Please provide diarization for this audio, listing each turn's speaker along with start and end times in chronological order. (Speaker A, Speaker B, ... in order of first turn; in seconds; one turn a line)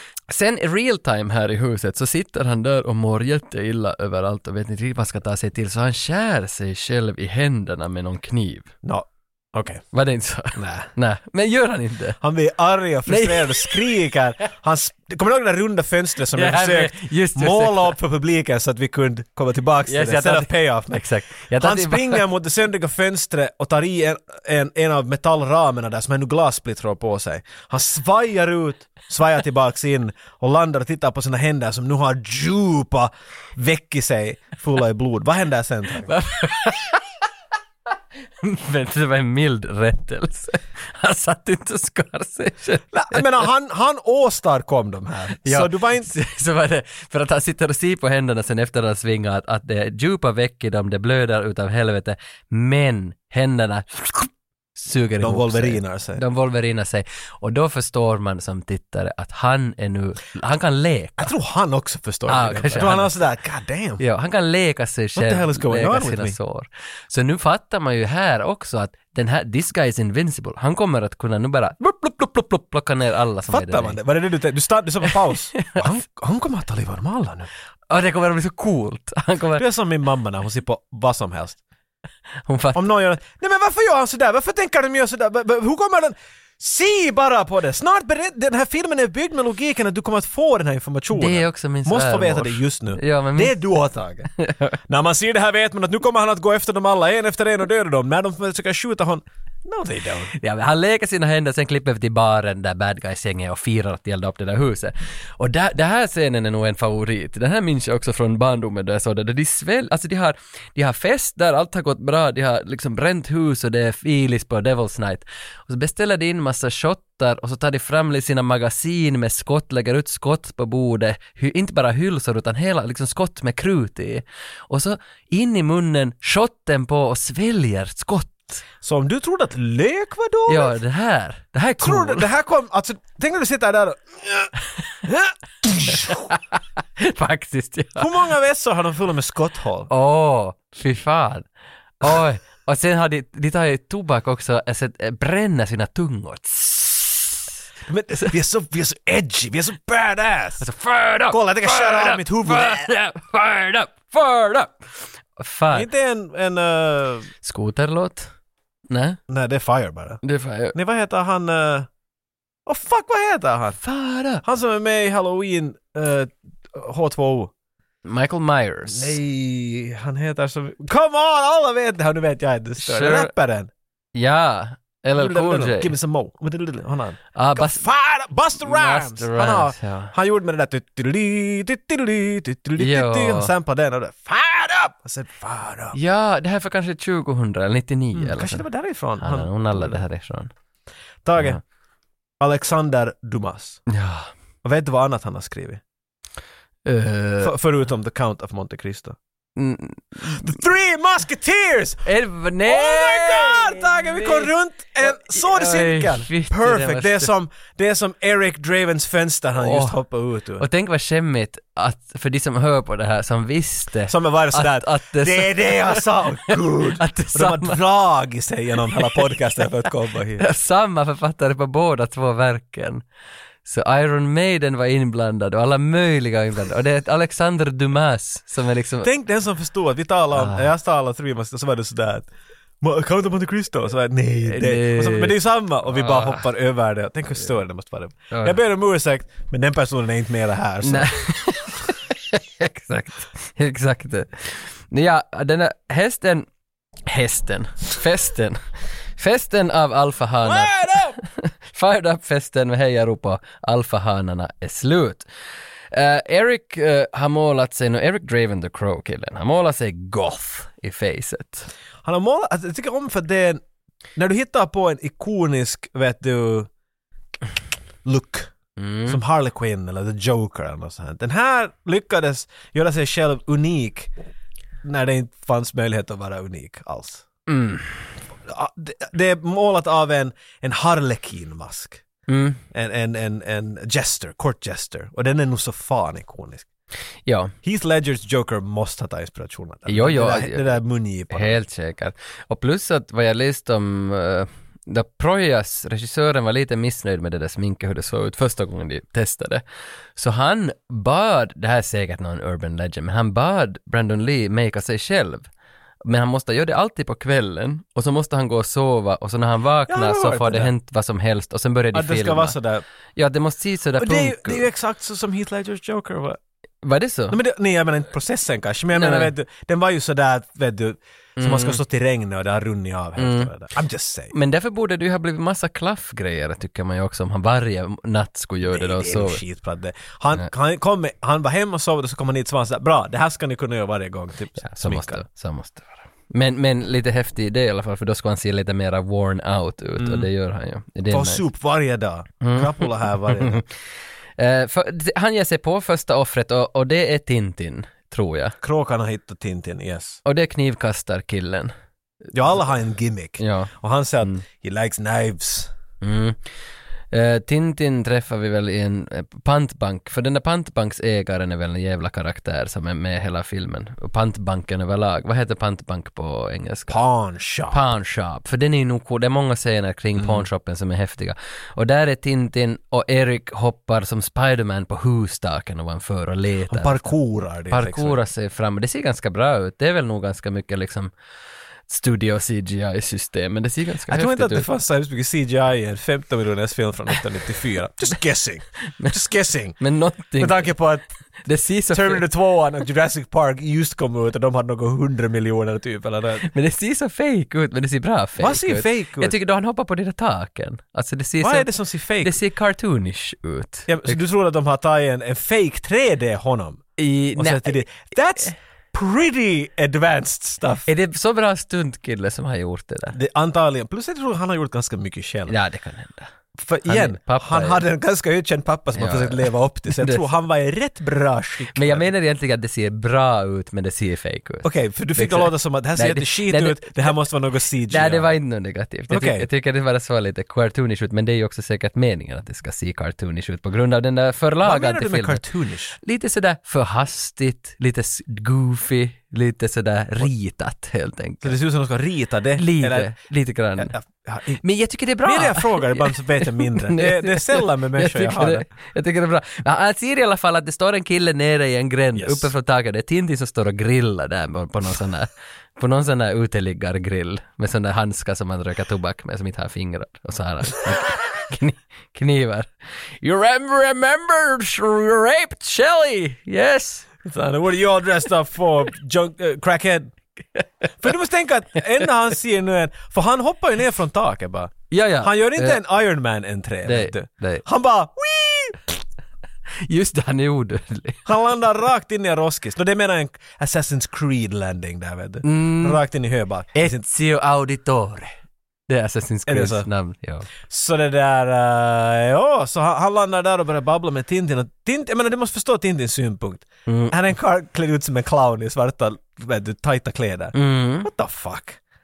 Speaker A: 0.3-8.7
Speaker B: 8.8-9.8
Speaker A: 9.9-12.2
Speaker B: 10.5-10.9
Speaker B: 12.2-36.1
Speaker A: 13.1-13.8
Speaker A: 16.3-17.9
Speaker A: 19.9-22.2
Speaker A: 36.0-37.0
Speaker A: 38.4-43.5
Speaker B: 42.9-46.1
Speaker A: 45.4-61.3
Speaker B: 55.2-56.2
Speaker B: 61.2-64.0
Speaker A: 62.3-63.2
Speaker A: 64.0-74.0
Speaker B: 65.1-66.4
Speaker B: 73.5-77.5
Speaker A: 75.1-75.8
Speaker A: 77.9-79.6
Speaker B: 79.5-81.6
Speaker A: 82.5-82.8
Speaker B: 82.7-94.3
Speaker A: 91.1-93.5
Speaker A: 94.4-94.8
Speaker B: 94.8-100.3
Speaker A: 100.4-128.6
Speaker B: 128.8-130.8
Speaker A: 130.5-132.3
Speaker B: 131.8-134.5
Speaker B: 135.0-136.2
Speaker A: 135.9-136.4
Speaker A: 137.0-138.1
Speaker B: 138.0-139.9
Speaker A: 139.9-141.5
Speaker A: 142.0-147.4
Speaker B: 147.9-150.7
Speaker A: 150.6-155.9
Speaker B: 151.3-152.9
Speaker B: 155.7-157.3
Speaker A: 157.4-158.3
Speaker A: 158.9-159.2
Speaker B: 159.3-160.2
Speaker A: 160.2-160.8
Speaker B: 160.7-161.9
Speaker B: 162.7-163.8
Speaker A: 163.8-164.4
Speaker B: 164.4-167.5
Speaker A: 168.0-169.2
Speaker B: 168.9-173.7
Speaker A: 172.8-173.3
Speaker A: 174.1-175.9
Speaker B: 175.1-186.0
Speaker A: 177.3-177.8
Speaker A: 178.6-180.1
Speaker A: 182.8-183.5
Speaker A: 185.9-188.7
Speaker B: 188.1-190.0
Speaker A: 189.2-190.5
Speaker B: 191.2-191.6
Speaker B: 192.4-193.8
Speaker A: 193.9-194.3
Speaker B: 194.6-195.8
Speaker A: 196.8-197.5
Speaker B: 197.4-199.2
Speaker A: 199.6-200.5
Speaker B: 200.2-202.0
Speaker A: 202.0-204.5
Speaker B: 202.6-210.6
Speaker A: 205.0-207.3
Speaker A: 209.6-210.0
Speaker A: 210.6-217.8
Speaker B: 214.1-220.4
Speaker A: 220.4-223.0
Speaker A: 223.7-229.1
Speaker B: 229.0-232.3
Speaker A: 230.3-230.7
Speaker B: 232.8-241.3
Speaker A: 234.4-235.3
Speaker A: 235.9-236.4
Speaker A: 238.3-238.6
Speaker A: 240.8-246.5
Speaker A: 247.1-248.6
Speaker A: 249.2-255.2
Speaker B: 250.4-251.2
Speaker A: 255.9-261.7
Speaker B: 262.0-263.6
Speaker B: 264.1-266.7
Speaker B: 268.0-268.5
Speaker A: 268.8-269.2
Speaker B: 269.1-274.1
Speaker B: 274.8-277.2
Speaker A: 277.5-278.0
Speaker B: 278.4-282.0
Speaker A: 282.3-282.6
Speaker B: 282.7-286.7
Speaker A: 287.2-287.5
Speaker B: 287.6-291.6
Speaker A: 289.9-290.8
Speaker A: 291.3-299.6
Speaker A: 300.1-305.5
Speaker A: 306.0-312.6
Speaker B: 309.9-310.7
Speaker B: 311.9-312.8
Speaker A: 313.1-314.6
Speaker B: 314.0-316.4
Speaker A: 316.8-317.4
Speaker B: 317.3-324.3
Speaker A: 318.9-319.3
Speaker A: 321.4-321.8
Speaker A: 323.2-323.5
Speaker A: 324.3-329.4
Speaker B: 328.6-335.2
Speaker A: 334.6-341.4
Speaker B: 340.0-340.3
Speaker B: 341.1-343.6
Speaker A: 342.4-343.7
Speaker A: 344.4-348.5
Speaker B: 348.6-350.2
Speaker A: 350.2-351.7
Speaker B: 352.3-355.7
Speaker A: 353.4-353.7
Speaker A: 356.0-356.4
Speaker A: 357.1-367.0
Speaker B: 366.9-367.8
Speaker A: 367.7-377.1
Speaker B: 370.2-370.4
Speaker B: 376.7-378.2
Speaker A: 377.7-381.1
Speaker A: 381.9-384.7
Speaker B: 384.1-389.8
Speaker A: 389.8-390.7
Speaker B: 390.4-391.1
Speaker A: 391.4-392.2
Speaker B: 391.9-396.5
Speaker A: 396.4-401.7
Speaker B: 398.4-399.4
Speaker B: 401.4-402.4
Speaker A: 402.2-404.2
Speaker B: 403.9-406.8
Speaker A: 407.0-408.5
Speaker B: 407.4-410.9
Speaker A: 410.9-413.2
Speaker B: 413.1-415.6
Speaker A: 415.5-416.3
Speaker B: 416.6-422.1
Speaker A: 416.8-417.8
Speaker A: 418.9-420.2
Speaker A: 421.7-427.2
Speaker B: 424.6-428.3
Speaker A: 427.9-435.4
Speaker B: 429.1-429.5
Speaker B: 434.6-436.0
Speaker A: 436.0-441.6
Speaker B: 441.4-443.1
Speaker A: 442.6-443.9
Speaker B: 443.8-444.6
Speaker A: 444.6-462.7
Speaker B: 445.2-448.6
Speaker B: 452.1-452.5
Speaker A: 463.2-467.1
Speaker B: 467.2-470.1
Speaker B: 471.0-479.0
Speaker A: 474.9-475.8
Speaker A: 476.8-477.6
Speaker A: 479.8-481.2
Speaker B: 481.2-487.0
Speaker A: 485.4-486.0
Speaker A: 486.7-488.3
Speaker A: 488.9-490.5
Speaker B: 489.5-489.9
Speaker B: 490.6-501.8
Speaker A: 496.9-497.1
Speaker A: 500.5-501.1